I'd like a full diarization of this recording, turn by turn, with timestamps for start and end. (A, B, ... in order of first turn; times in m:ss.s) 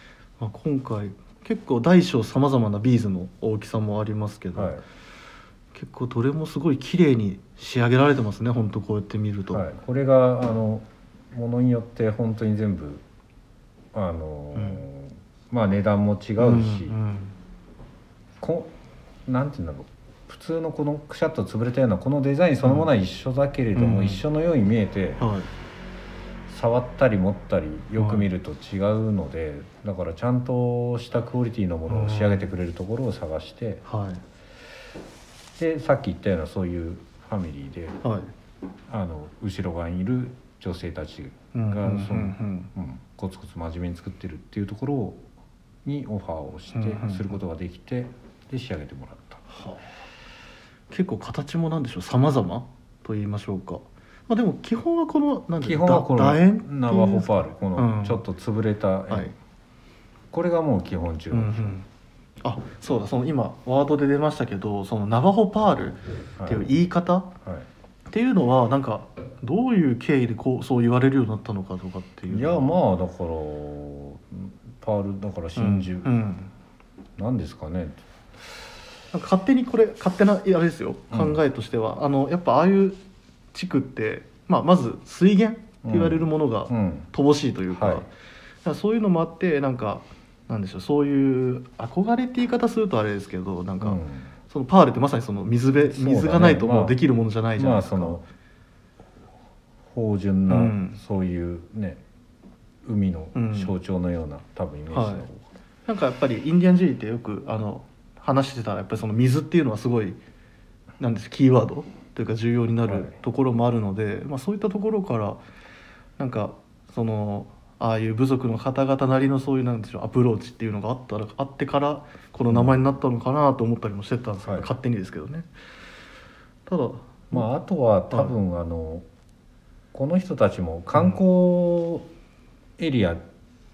0:00.4-0:04.8 A
0:04.5-0:04.8 B
0:05.8-0:09.6 A
0:09.5-0:13.0 B
0:13.9-0:17.0 B
0:14.5-0:14.8 A
0:16.4-0:17.4 A
0:18.4-0:18.7 B
0:19.2-0:25.2 B
0:22.6-0:22.9 A
0:23.8-0:24.2 A
0:25.2-0:25.5 A
0:26.5-0:33.8 B
0:28.0-0:28.3 A
0:31.9-0:32.5 A
0:33.8-0:34.2 A
0:35.6-0:38.0 B
0:38.0-0:38.3 A
0:38.9-0:45.2 B
0:41.5-0:42.7 A
0:45.8-0:49.4 B
0:46.7-0:47.4 A
0:49.5-0:49.8 A
0:50.9-0:58.2 A
0:55.6-0:59.3 B
0:59.1-0:59.4 A
1:00.3-1:01.8 B
1:01.3-1:01.9 A
1:02.4-1:07.3 A
1:06.4-1:06.7 B
1:08.1-1:12.7 A
1:12.3-1:16.1 B
1:15.6-1:16.5 A
1:17.2-1:18.0 B
1:19.1-1:23.0 A
1:21.1-1:21.4 B
1:23.5-1:28.1 A
1:25.8-1:27.1 B
1:27.7-1:28.0 B
1:28.6-1:38.2 A
1:33.8-1:34.3 B
1:35.9-1:37.0 B
1:37.6-1:38.2 B
1:39.9-1:42.0 B
1:40.5-1:41.0 A
1:42.8-1:45.5 B
1:43.4-1:43.7 A
1:44.9-1:45.2 A
1:45.9-1:50.2 A
1:51.0-1:55.4 A
1:52.9-1:53.2 B
1:56.2-2:05.5 A
2:02.5-2:02.8 B
2:04.4-2:04.7 B
2:06.7-2:07.5 A
2:07.3-2:09.0 B
2:09.9-2:12.1 B
2:10.9-2:11.2 A
2:12.8-2:13.2 B